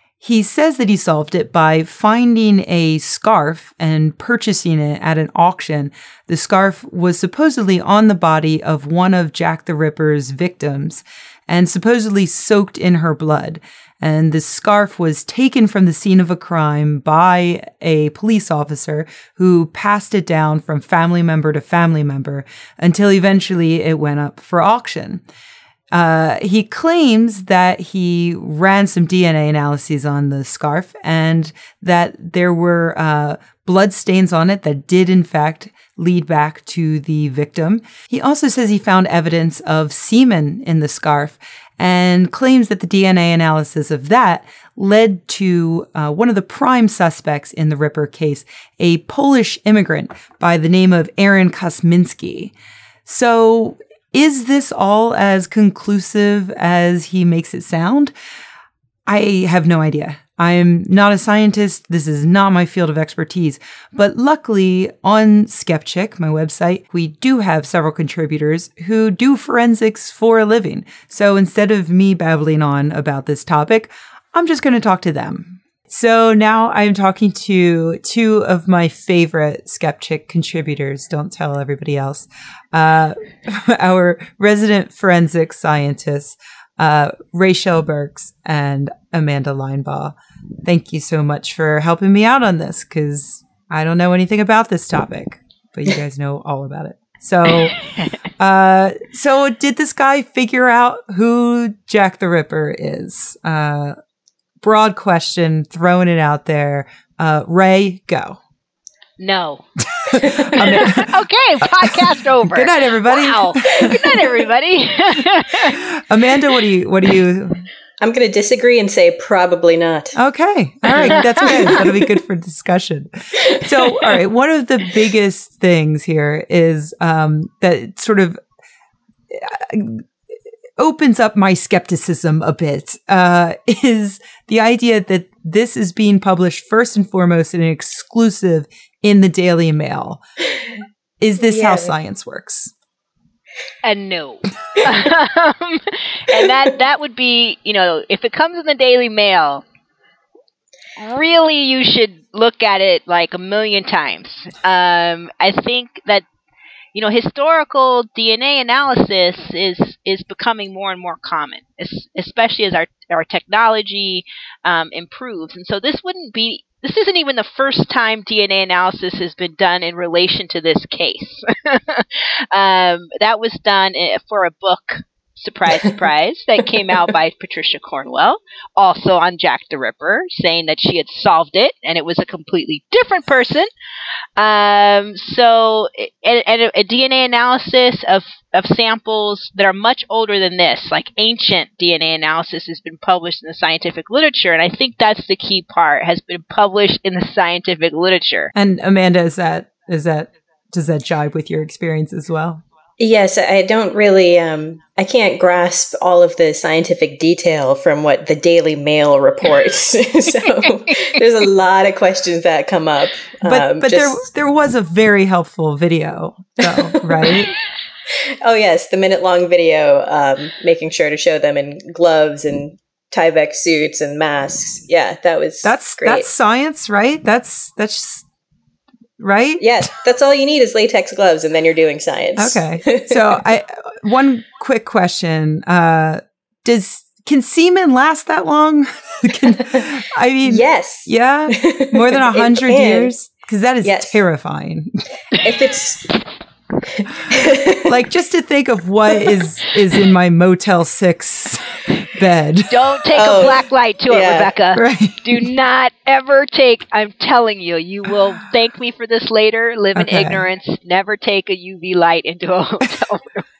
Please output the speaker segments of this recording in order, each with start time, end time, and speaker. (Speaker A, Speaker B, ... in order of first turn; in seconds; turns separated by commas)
Speaker A: 0.2-25.2, Speaker A: 25.9-52.5, Speaker A: 53.0-58.1, Speaker A: 59.1-97.8, Speaker A: 98.4-104.0, Speaker A: 104.6-108.4, Speaker B: 109.2-109.6, Speaker A: 109.9-111.1, Speaker C: 110.1-110.9, Speaker B: 110.5-115.8, Speaker A: 112.4-114.3, Speaker A: 115.6-117.6, Speaker C: 118.0-120.2, Speaker A: 120.2-128.4, Speaker C: 121.0-122.0, Speaker B: 121.0-121.8, Speaker A: 129.3-130.1, Speaker A: 130.8-140.2, Speaker A: 141.2-142.7, Speaker C: 141.4-142.0, Speaker B: 143.8-149.6, Speaker B: 151.0-156.2, Speaker B: 156.9-183.7, Speaker B: 184.4-198.5, Speaker A: 198.6-202.6, Speaker C: 203.0-214.2, Speaker B: 210.3-211.2, Speaker A: 213.4-217.6, Speaker C: 218.4-226.3, Speaker A: 225.6-228.3, Speaker A: 229.2-229.7, Speaker C: 229.6-233.2, Speaker A: 232.4-244.9, Speaker C: 240.4-243.1, Speaker C: 243.8-244.2, Speaker C: 245.4-246.1, Speaker C: 246.9-247.8, Speaker A: 247.3-252.8, Speaker B: 252.7-263.4, Speaker C: 253.1-254.5, Speaker A: 254.8-255.5, Speaker A: 259.9-260.4